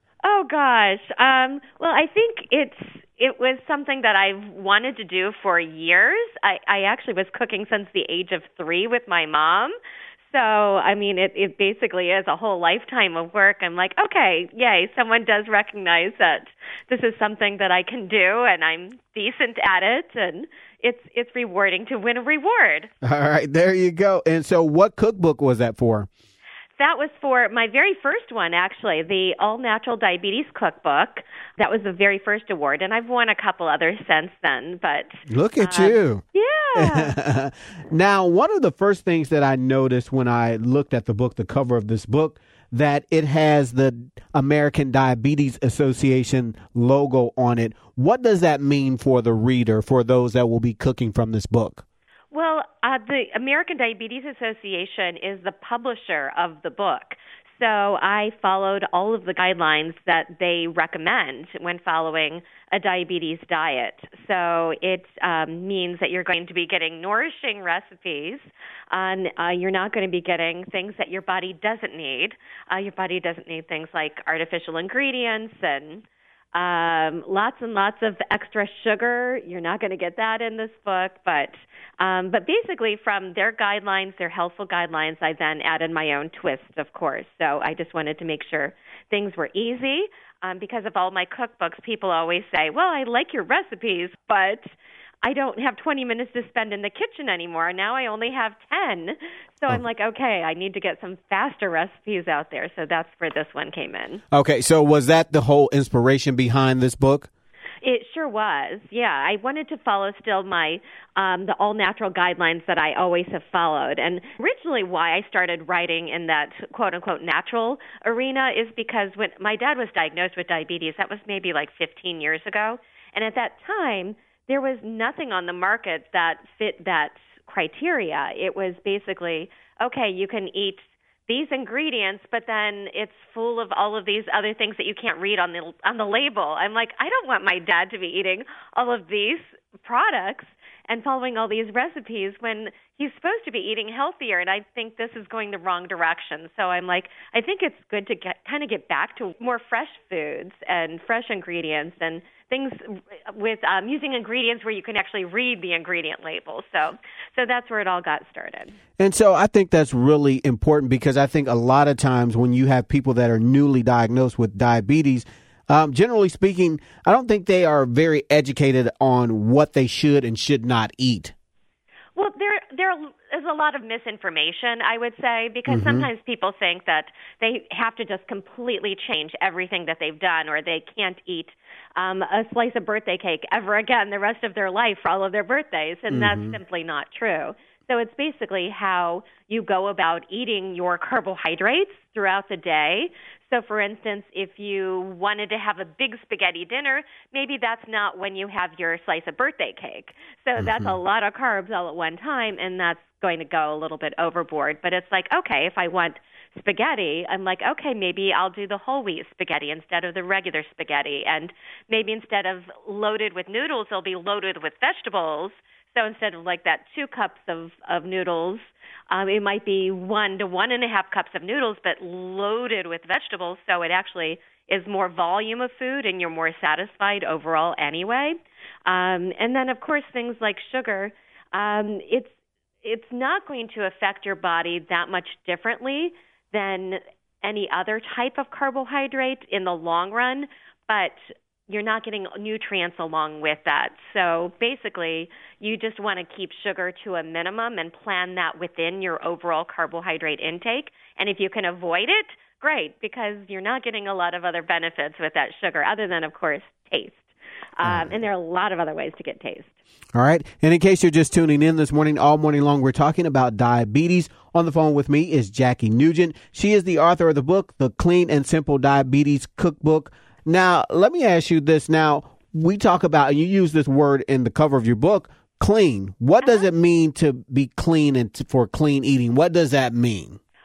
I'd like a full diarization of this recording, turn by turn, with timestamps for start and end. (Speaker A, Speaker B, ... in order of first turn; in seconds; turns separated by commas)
Speaker A: 0.2-9.7, Speaker A: 10.3-22.9, Speaker B: 23.0-26.1, Speaker A: 26.8-35.1, Speaker B: 35.3-36.2, Speaker A: 35.6-37.1, Speaker B: 36.8-51.8, Speaker A: 52.3-76.0, Speaker A: 76.5-94.6, Speaker A: 95.2-104.2, Speaker B: 104.3-107.3, Speaker A: 107.8-158.7, Speaker B: 159.0-171.3, Speaker A: 172.2-228.3, Speaker B: 175.7-176.1, Speaker B: 186.1-186.6, Speaker B: 200.6-200.9, Speaker A: 228.8-232.3, Speaker A: 232.8-259.7, Speaker B: 257.8-258.1, Speaker B: 260.1-280.4, Speaker A: 276.4-276.7